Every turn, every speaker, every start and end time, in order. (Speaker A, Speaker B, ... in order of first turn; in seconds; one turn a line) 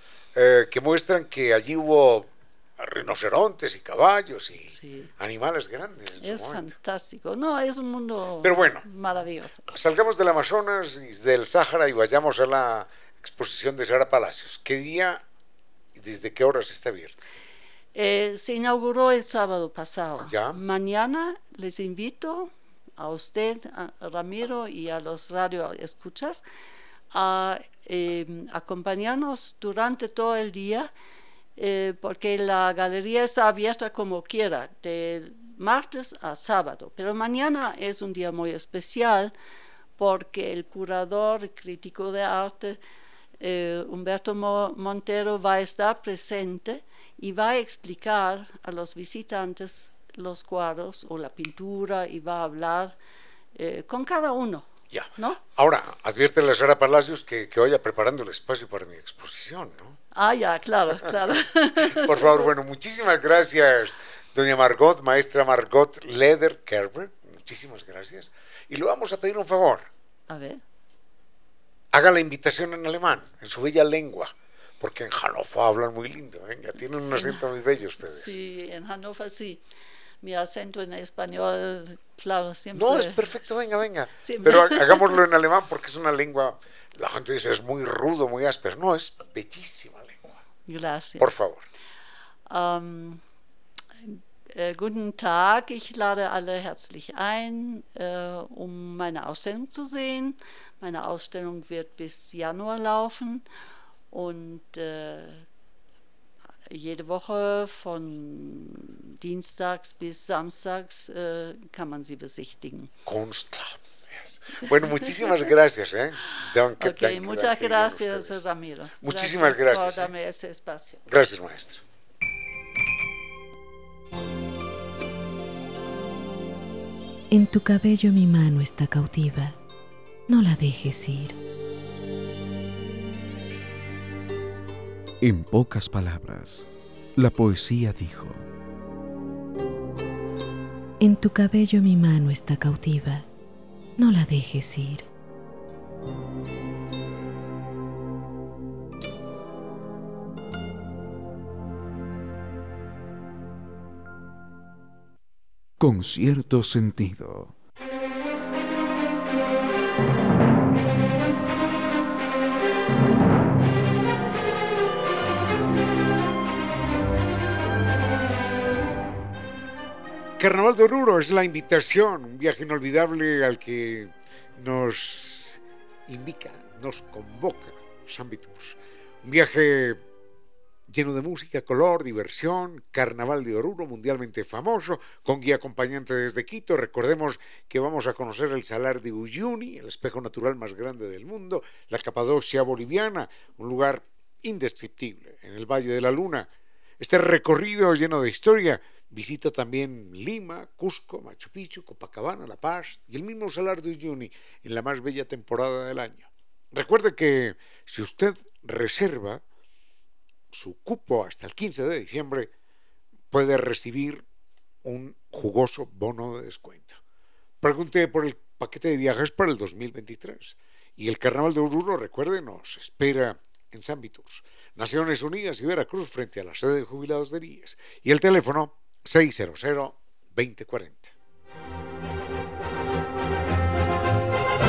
Speaker A: 0.3-6.7
Speaker B: 4.7-5.1
Speaker B: 6.2-9.7
Speaker A: 8.4-8.8
Speaker A: 9.7-15.2
Speaker A: 15.9-17.3
Speaker B: 17.9-26.4
Speaker A: 20.2-20.6
Speaker B: 27.1-30.9
Speaker B: 31.6-39.3
Speaker B: 40.0-42.8
Speaker B: 43.4-52.9
Speaker B: 53.6-55.4
Speaker A: 54.9-60.0
Speaker B: 60.1-62.5
Speaker A: 61.8-69.9
Speaker B: 70.3-70.6
Speaker A: 71.9-78.3
Speaker B: 77.2-77.4
Speaker B: 78.0-79.6
Speaker B: 80.2-85.2
Speaker A: 82.8-90.4
Speaker B: 90.7-91.4
Speaker A: 91.2-91.7
Speaker B: 92.5-93.2
Speaker B: 94.0-103.5
Speaker B: 104.1-105.4
Speaker B: 106.7-112.9
Speaker A: 113.1-118.4
Speaker B: 116.8-121.0
Speaker A: 119.0-120.1
Speaker A: 121.1-121.8
Speaker C: 127.3-129.6
Speaker C: 130.3-131.4
Speaker D: 135.3-136.2
Speaker C: 135.7-136.6
Speaker D: 137.2-138.3
Speaker C: 141.0-143.3
Speaker C: 144.0-145.1
Speaker C: 155.8-157.5
Speaker A: 170.4-180.0
Speaker A: 180.9-196.5
Speaker A: 197.0-209.4
Speaker A: 210.5-212.5
Speaker A: 213.3-214.2
Speaker A: 214.8-217.0
Speaker A: 217.6-231.1